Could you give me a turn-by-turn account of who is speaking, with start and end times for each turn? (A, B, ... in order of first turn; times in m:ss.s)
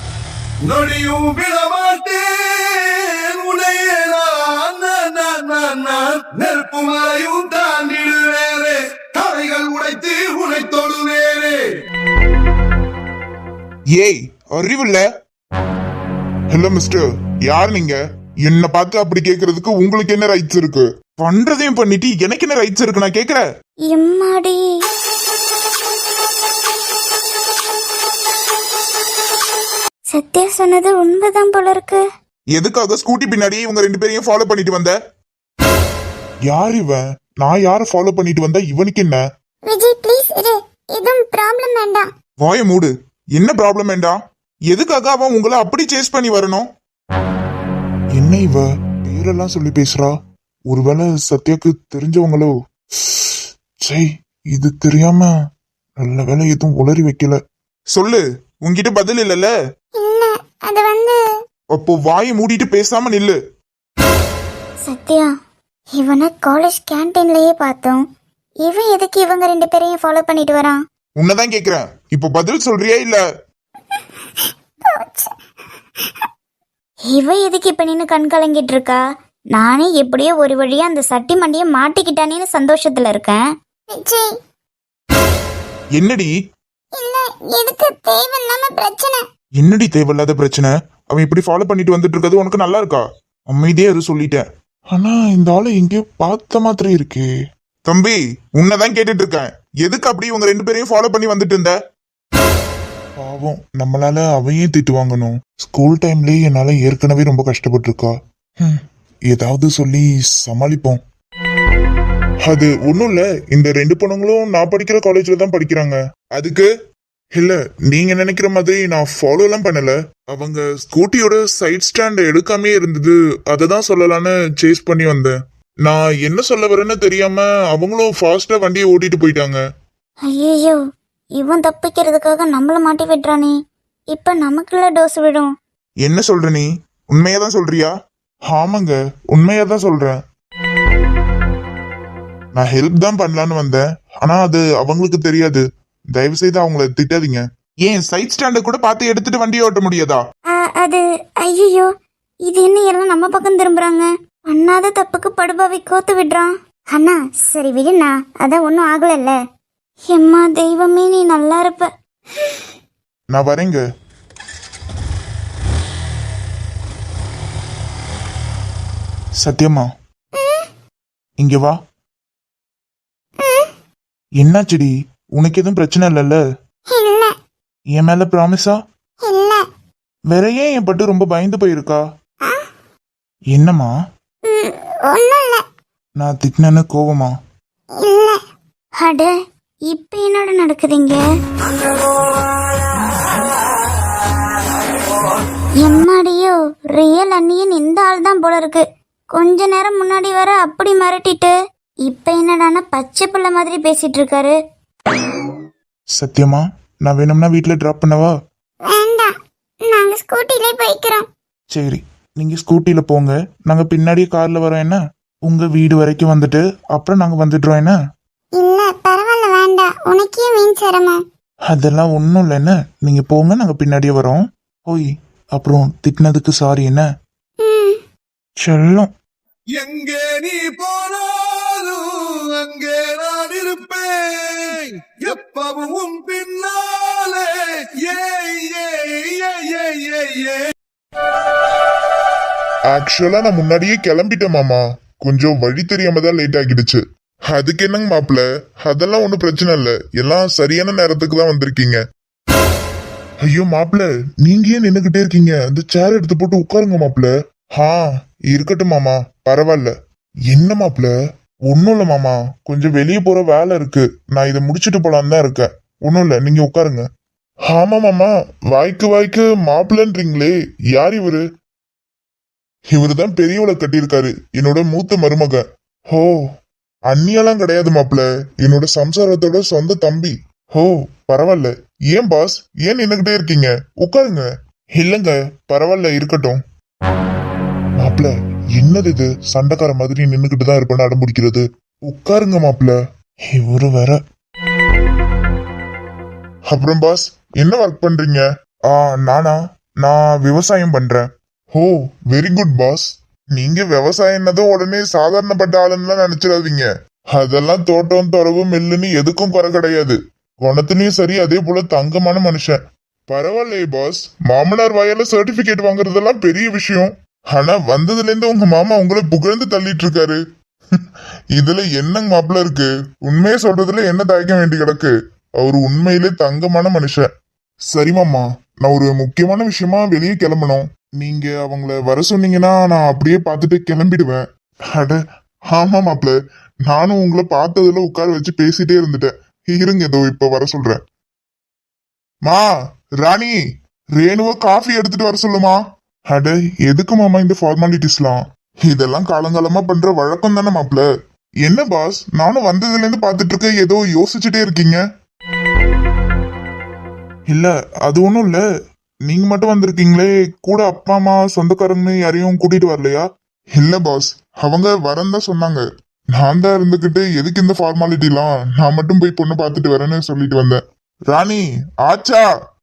0:00.6-0:11.6 A
0:14.0-0:15.0 B
0:16.5-0:23.4 B
0:23.9-0:24.6 C
0:30.1-0:32.0 C
0:32.5-0:35.0 B
0:36.5-0:39.2 B
0:39.6-0:42.1 D
0:42.4-0:46.7 B
0:48.2-0:50.1 B
0:50.7-0:55.3 B
0:56.0-0:57.4 B
0:57.9-0:59.5 B
1:00.0-1:01.2 D
1:01.7-1:03.4 B
1:04.9-1:05.3 C
1:06.0-1:08.0 C
1:08.6-1:10.8 C
1:11.2-1:13.2 B
1:14.0-1:15.3 D
1:17.1-1:19.0 C
1:19.5-1:23.4 C
1:23.9-1:24.2 D
1:26.0-1:26.3 B
1:26.9-1:29.2 D
1:29.6-1:37.3 B
1:37.8-1:41.8 B
1:43.2-1:51.0 B
1:52.4-1:56.7 B
1:57.3-2:05.3 B
2:05.8-2:09.6 B
2:10.2-2:10.8 C
2:11.4-2:13.5 C
2:14.1-2:15.5 C
2:16.0-2:17.9 B
2:18.5-2:20.2 B
2:22.5-2:30.2 B
2:30.5-2:31.9 C
2:32.5-2:39.4 C
2:40.1-2:41.9 C
2:43.3-2:43.8 B
2:49.4-2:49.9 B
2:50.3-2:50.7 D
2:51.4-2:51.8 B
2:53.4-2:53.7 D
2:54.4-2:56.4 B
2:56.9-2:57.3 D
2:57.9-2:58.8 B
2:59.2-2:59.6 D
3:00.3-3:02.0 B
3:03.5-3:03.9 B
3:04.4-3:05.6 D
3:06.2-3:07.3 B
3:08.0-3:08.4 D
3:09.0-3:09.3 C
3:09.9-3:11.2 C
3:15.8-3:18.8 C
3:19.4-3:21.5 C
3:22.0-3:24.5 C
3:26.2-3:28.3 B
3:28.9-3:29.3 D
3:29.9-3:31.3 D
3:31.7-3:38.0 B
3:38.6-3:41.2 D
3:41.7-3:47.1 B
3:47.6-3:48.0 D
3:48.6-3:49.1 B
3:49.8-4:00.7 A
4:02.9-4:12.0 B
4:13.4-4:18.0 B
4:18.5-4:19.9 B
4:20.5-4:21.1 B
4:21.7-4:27.0 B
4:27.7-4:31.4 B
4:32.9-4:36.3 B
4:37.1-4:44.4 B
4:45.0-4:46.6 B
4:48.0-4:52.9 B
4:53.5-4:54.2 B
4:56.7-5:20.4 B
5:21.6-5:27.3 B
5:27.9-5:34.4 B
5:34.9-5:35.2 B
5:35.7-5:36.3 B
5:36.9-5:41.0 B
5:43.2-5:43.6 B
5:44.2-5:51.0 B
5:51.6-5:55.0 B
5:57.5-5:58.6 B
5:59.2-6:03.2 B
6:03.8-6:05.8 B
6:06.4-6:10.8 B
6:11.3-6:12.4 B